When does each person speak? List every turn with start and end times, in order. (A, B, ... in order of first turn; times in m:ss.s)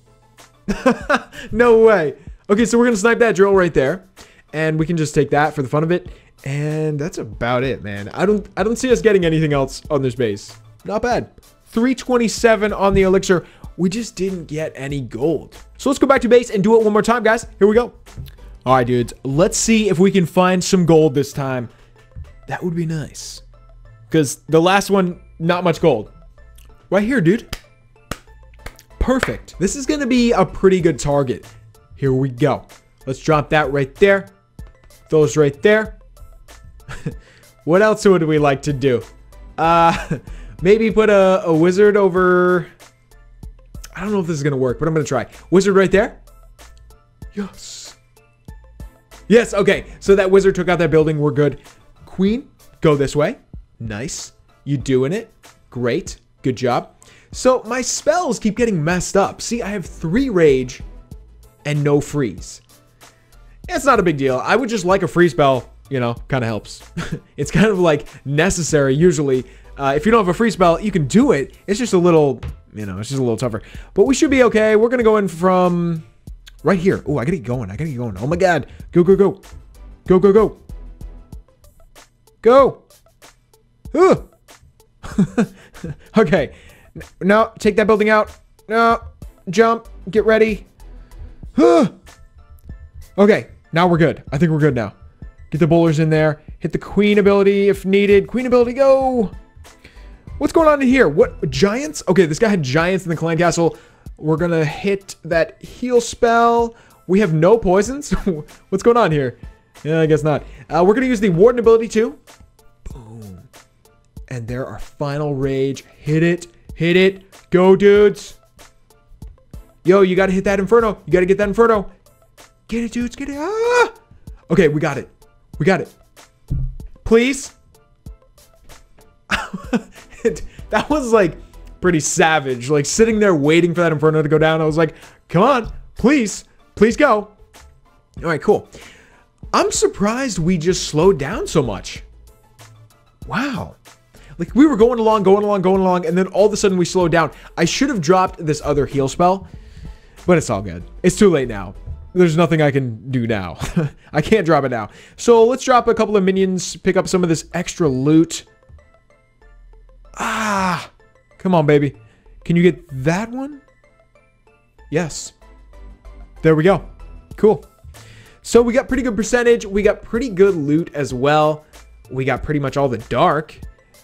0:00.7-0:18.0 A
0:18.6-0:21.7 A
0:22.5-0:23.4 A
0:24.1-0:26.1 A
0:26.9-0:27.5 A
0:29.0-0:34.3 A
0:35.1-0:36.0 A
0:37.0-0:39.1 A
0:39.6-0:42.7 A
0:43.9-0:46.2 A
0:47.3-0:48.0 A
0:49.3-1:00.8 A
1:01.6-1:02.6 A
1:03.7-1:16.0 A
1:16.6-1:19.4 A
1:20.1-1:20.6 A
1:22.4-1:22.8 A
1:23.9-1:24.3 A
1:25.0-1:30.7 A
1:31.6-1:31.9 A
1:33.2-1:34.9 A
1:35.5-1:39.3 A
1:40.4-1:52.2 A
1:52.9-1:53.5 A
1:54.3-1:58.4 A
1:59.8-2:01.9 A
2:02.7-2:03.9 A
2:04.5-2:05.9 A
2:07.0-2:07.5 A
2:09.3-2:17.3 A
2:18.2-2:18.7 A
2:19.5-2:22.0 A
2:23.3-2:23.8 A
2:24.4-2:29.5 A
2:30.2-2:38.5 A
2:40.2-2:43.6 A
2:44.9-2:45.4 A
2:46.4-2:47.7 A
2:48.4-2:53.6 A